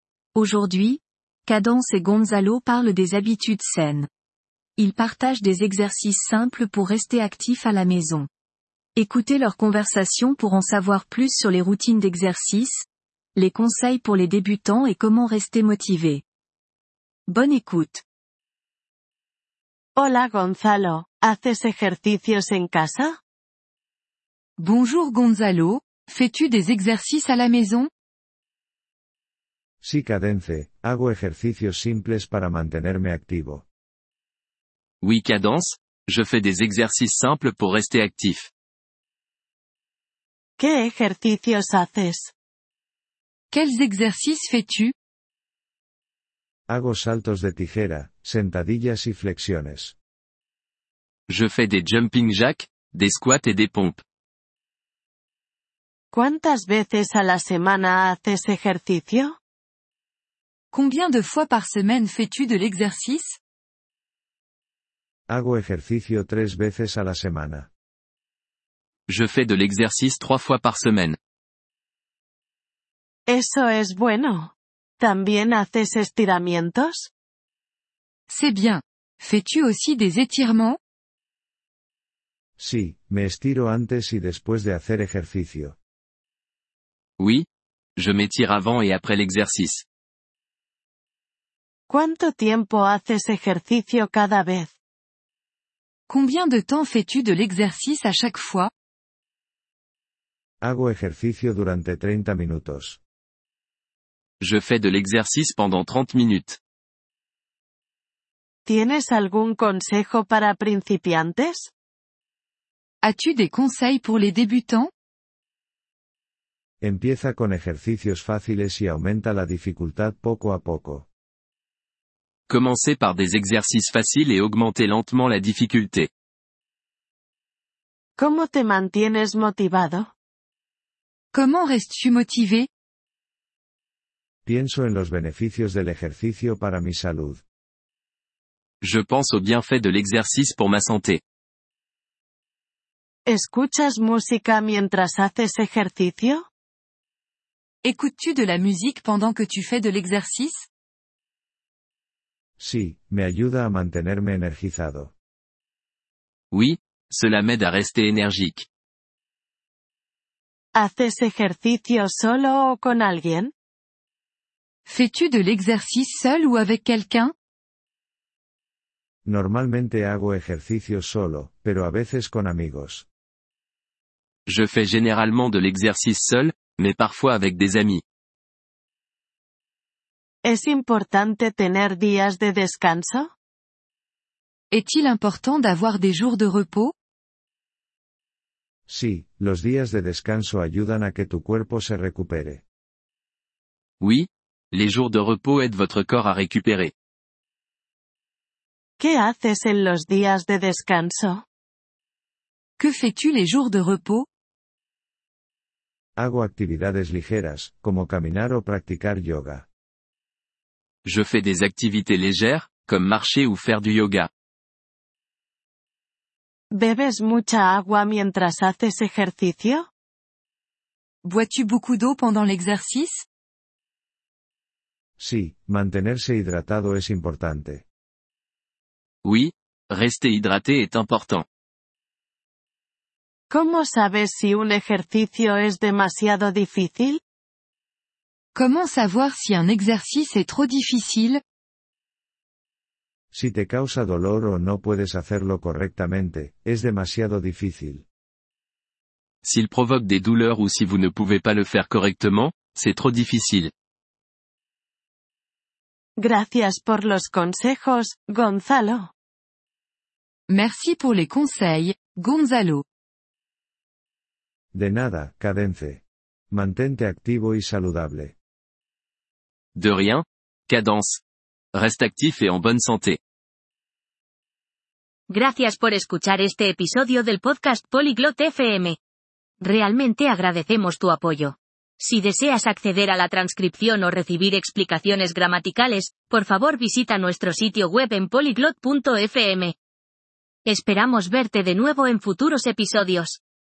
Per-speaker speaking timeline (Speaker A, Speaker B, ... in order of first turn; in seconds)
Speaker A: 0.3-4.1, 4.8-8.3, 8.9-16.2, 17.3-18.0
Speaker B: 20.0-23.2, 40.6-42.3, 56.1-59.4, 73.3-77.1, 91.9-94.7, 108.7-111.7, 128.2-130.1, 143.2-146.4, 160.7-163.5, 180.4-183.3, 199.0-201.4, 216.7-219.8, 233.5-237.2, 256.2-259.1
Speaker C: 24.6-27.9, 43.5-44.9, 60.7-63.4, 78.3-80.8, 96.1-98.7, 113.0-114.9, 131.3-132.7, 147.8-150.7, 164.8-167.3, 184.7-186.9, 202.8-204.3, 221.2-223.2, 238.5-241.4, 260.5-262.8
Speaker D: 29.8-33.6, 46.7-49.9, 65.3-67.7, 82.6-85.8, 100.6-103.0, 116.8-121.1, 134.4-137.4, 152.6-155.1, 169.2-173.1, 188.9-192.6, 206.2-209.6, 225.2-227.8, 243.3-248.0, 264.7-268.3
Speaker E: 35.0-38.5, 51.3-54.0, 69.1-71.2, 87.2-89.8, 104.4-106.6, 122.5-126.1, 138.8-141.2, 156.5-158.7, 174.4-178.0, 194.0-196.9, 211.0-214.3, 229.2-231.4, 249.4-253.7, 269.7-271.2, 271.7-273.2
Speaker F: 275.3-279.0, 279.6-289.7, 290.6-293.4